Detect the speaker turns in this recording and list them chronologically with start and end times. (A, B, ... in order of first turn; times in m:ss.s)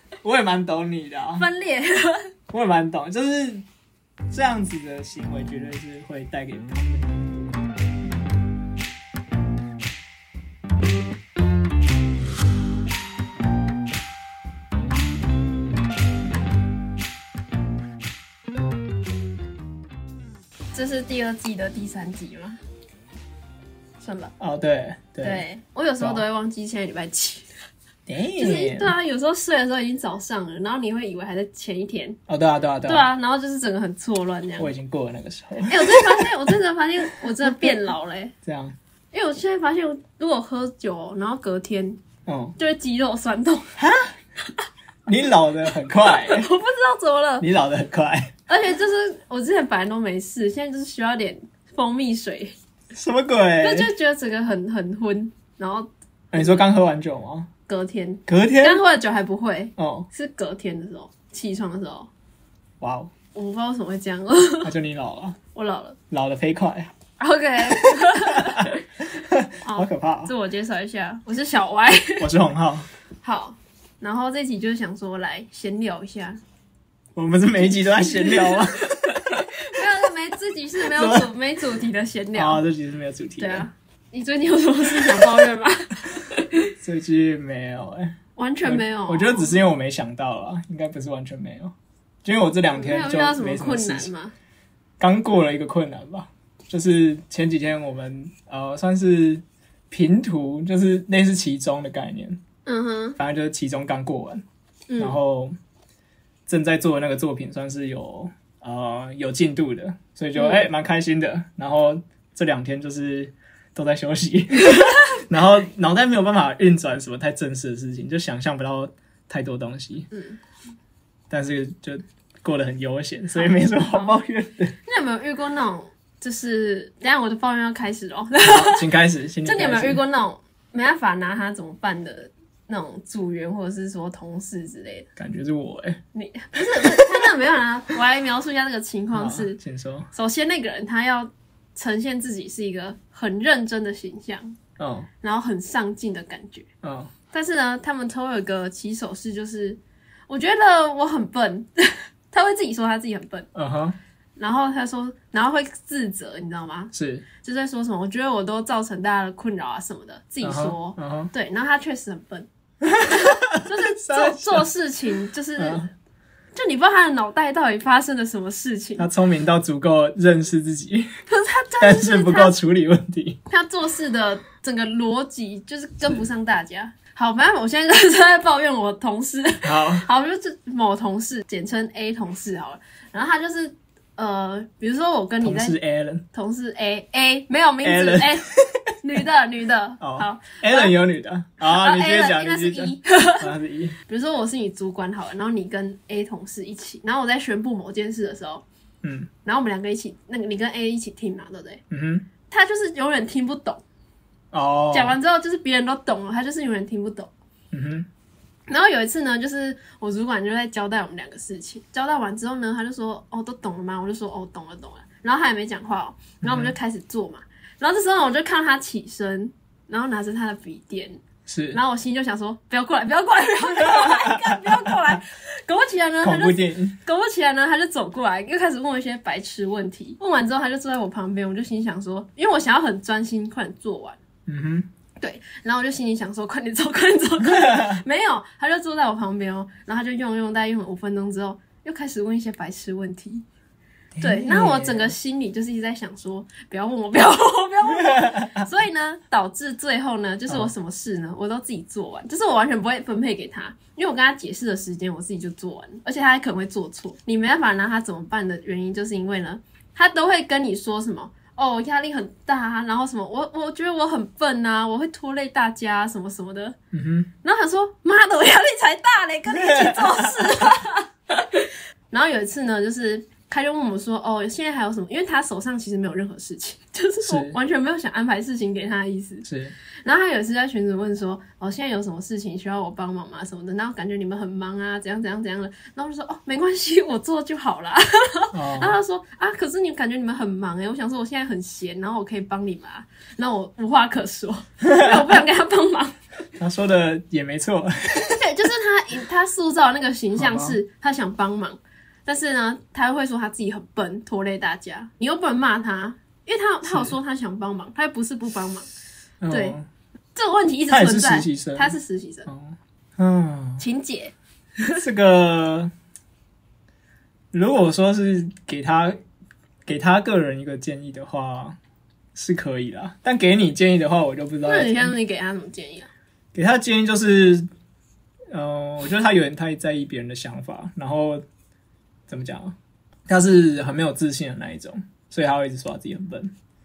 0:00.2-0:01.5 A
0:01.4-0:02.3 B
0:02.5-0:03.6 A
0:04.3-0:07.4 A
0:20.7-0:22.6 B
0:24.0-0:24.3 B
0:24.4-0:25.4 A
0:25.2-0:27.5 B
0:28.1-0:29.0 A
0:28.4-0:32.2 B
0:32.3-0:33.1 A
0:32.8-0:34.7 B
0:34.6-0:36.5 A
0:35.6-0:38.3 B
0:38.4-0:38.7 A
0:39.1-0:42.0 B
0:42.2-0:42.5 A
0:42.6-0:43.7 B
0:43.8-0:44.1 A
0:45.1-0:46.5 A
0:46.0-0:47.4 B
0:47.4-0:48.3 A
0:48.5-0:52.6 B
0:52.9-0:53.9 A
0:53.6-0:56.6 B
0:56.3-0:57.5 A
0:57.7-1:02.1 B
0:58.3-0:58.8 A
0:59.8-1:00.1 A
1:02.8-1:03.1 A
1:03.3-1:04.7 B
1:04.6-1:05.4 A
1:05.5-1:06.0 B
1:06.1-1:06.9 A
1:07.2-1:08.8 B
1:07.7-1:10.3 A
1:09.6-1:12.3 B
1:12.2-1:12.9 A
1:13.2-1:16.4 B
1:17.2-1:19.6 A
1:18.0-1:22.6 B
1:20.8-1:21.3 A
1:22.3-1:23.7 A
1:23.4-1:26.7 B
1:26.8-1:31.7 A
1:28.4-1:29.5 B
1:32.2-1:34.1 A
1:32.7-1:34.3 B
1:35.0-1:42.4 A
1:42.6-1:43.2 B
1:43.2-1:44.4 A
1:44.9-1:45.2 B
1:45.0-1:45.6 A
1:46.5-2:00.1 A
1:50.4-1:50.6 B
2:00.1-2:00.4 B
2:01.3-2:04.7 A
2:03.4-2:04.1 B
2:04.8-2:08.9 B
2:08.4-2:10.0 A
2:09.4-2:15.1 B
2:15.2-2:16.0 A
2:16.1-2:19.6 B
2:16.5-2:17.2 A
2:19.1-2:20.1 A
2:20.1-2:24.6 B
2:24.8-2:25.1 A
2:25.2-2:26.6 B
2:26.8-2:27.1 A
2:27.3-2:33.5 B
2:33.5-2:34.0 A
2:34.4-2:42.5 B
2:36.9-2:37.3 A
2:40.4-2:41.3 A
2:42.8-2:44.7 A
2:43.0-2:45.9 B
2:45.6-2:45.9 A
2:46.5-2:49.1 B
2:49.0-2:51.1 A
2:51.3-2:52.5 B
2:51.8-2:53.4 A
2:53.5-3:05.8 B
2:59.6-3:00.1 A
3:05.4-3:06.2 A
3:06.3-3:08.5 B
3:07.8-3:08.9 A
3:09.0-3:10.9 B
3:10.0-3:14.0 A
3:11.6-3:13.5 B
3:14.1-3:18.6 B
3:19.0-3:19.3 A
3:19.4-3:21.8 B
3:21.9-3:22.3 A
3:22.5-3:23.8 B
3:24.5-3:25.2 A
3:24.9-3:27.3 B
3:27.7-3:28.1 A
3:28.7-3:41.2 B
3:36.4-3:36.7 A
3:41.5-3:41.8 A
3:41.7-3:54.2 B
3:43.9-3:44.8 A
3:46.2-3:47.0 A
3:54.4-3:54.9 A
3:55.2-4:03.4 B
3:57.4-3:58.0 A
4:04.1-4:05.1 A
4:04.2-4:26.8 B
4:08.1-4:08.6 A
4:26.9-4:27.3 A
4:27.4-4:39.4 B
4:29.5-4:30.7 A
4:37.2-4:37.6 A
4:39.4-4:39.7 A
4:40.0-4:56.2 B
4:48.5-4:49.0 A
4:56.6-4:58.4 A
4:58.2-5:08.9 B
5:00.3-5:00.8 A
5:06.8-5:07.2 A
5:09.4-5:09.9 A
5:09.5-5:09.8 B
5:10.3-5:12.5 B
5:10.9-5:13.8 A
5:13.8-5:14.9 B
5:15.0-5:15.9 A
5:17.5-5:19.2 A
5:19.8-5:21.8 A
5:22.3-5:25.1 A
5:24.6-5:26.1 B
5:26.5-5:27.7 A
5:28.5-5:31.4 A
5:32.3-5:32.7 A
5:33.3-5:36.5 A